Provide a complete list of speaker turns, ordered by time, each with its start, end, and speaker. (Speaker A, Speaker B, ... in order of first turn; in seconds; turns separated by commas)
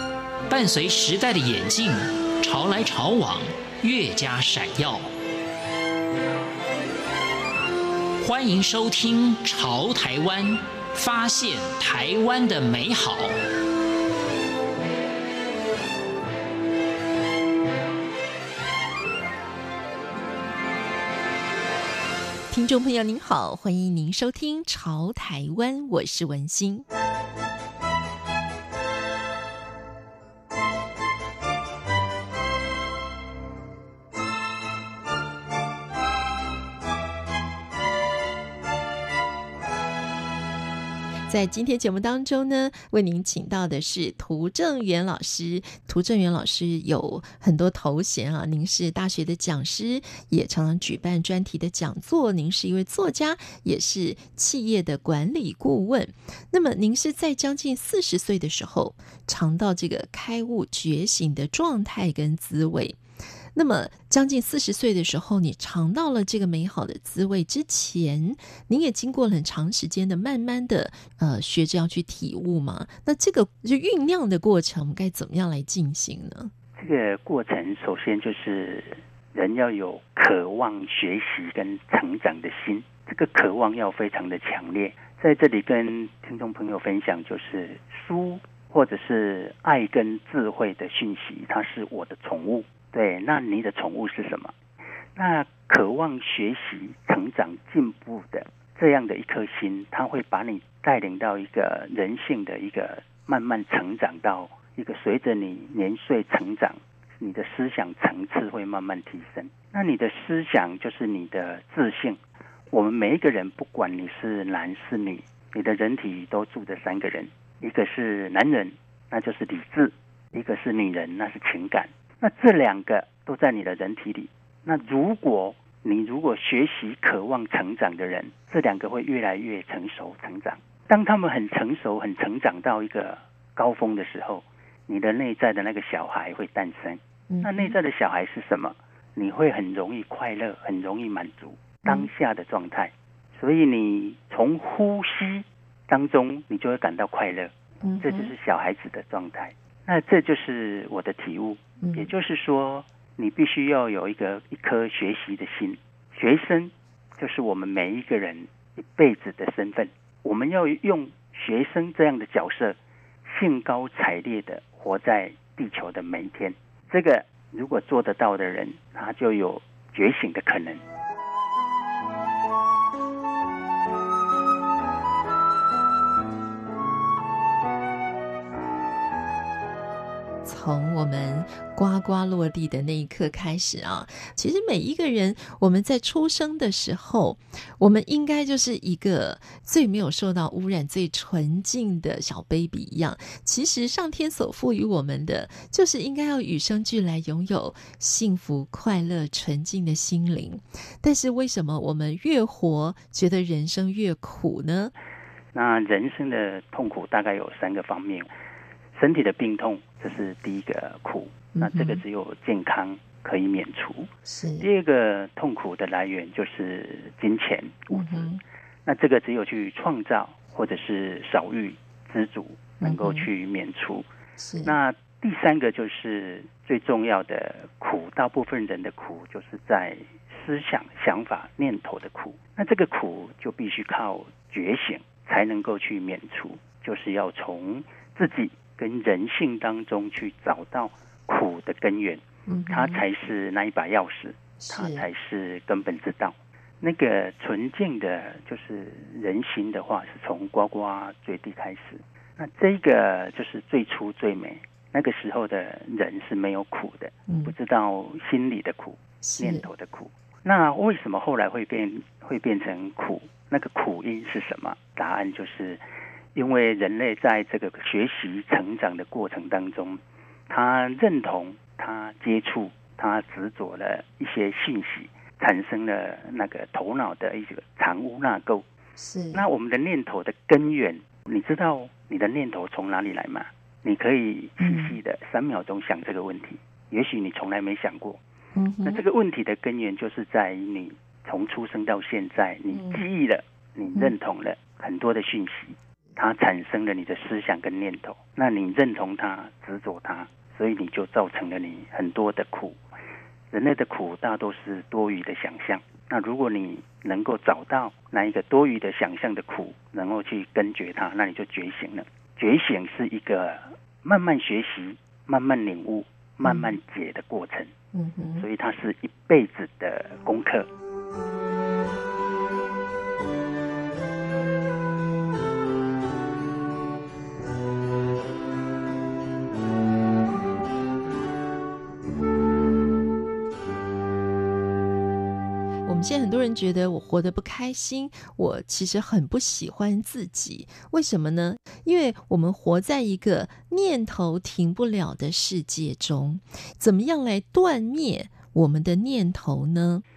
Speaker A: 0.5-5.1, Speaker A: 8.2-13.3, Speaker B: 22.5-26.9, Speaker B: 41.3-63.0, Speaker B: 63.5-76.5, Speaker C: 76.8-94.5, Speaker C: 95.2-112.2, Speaker C: 112.7-170.8, Speaker B: 137.3-137.8, Speaker B: 141.8-142.1, Speaker B: 147.8-148.3, Speaker B: 151.8-152.1, Speaker B: 180.4-204.9, Speaker C: 205.5-208.3, Speaker C: 209.0-218.3, Speaker B: 211.6-212.0, Speaker B: 214.3-214.7, Speaker B: 217.9-218.4, Speaker C: 218.8-224.1, Speaker B: 222.8-223.3, Speaker B: 224.4-224.8, Speaker C: 224.7-265.8, Speaker B: 242.5-243.0, Speaker B: 244.6-245.1, Speaker B: 257.3-257.6, Speaker B: 259.2-259.7, Speaker C: 266.4-278.7, Speaker B: 279.0-279.5, Speaker C: 279.3-288.2, Speaker B: 284.6-285.0, Speaker B: 288.6-289.0, Speaker C: 288.9-302.8, Speaker B: 292.7-293.0, Speaker C: 303.5-317.7, Speaker B: 316.4-316.8, Speaker B: 317.9-318.5, Speaker C: 318.4-320.7, Speaker B: 335.9-350.0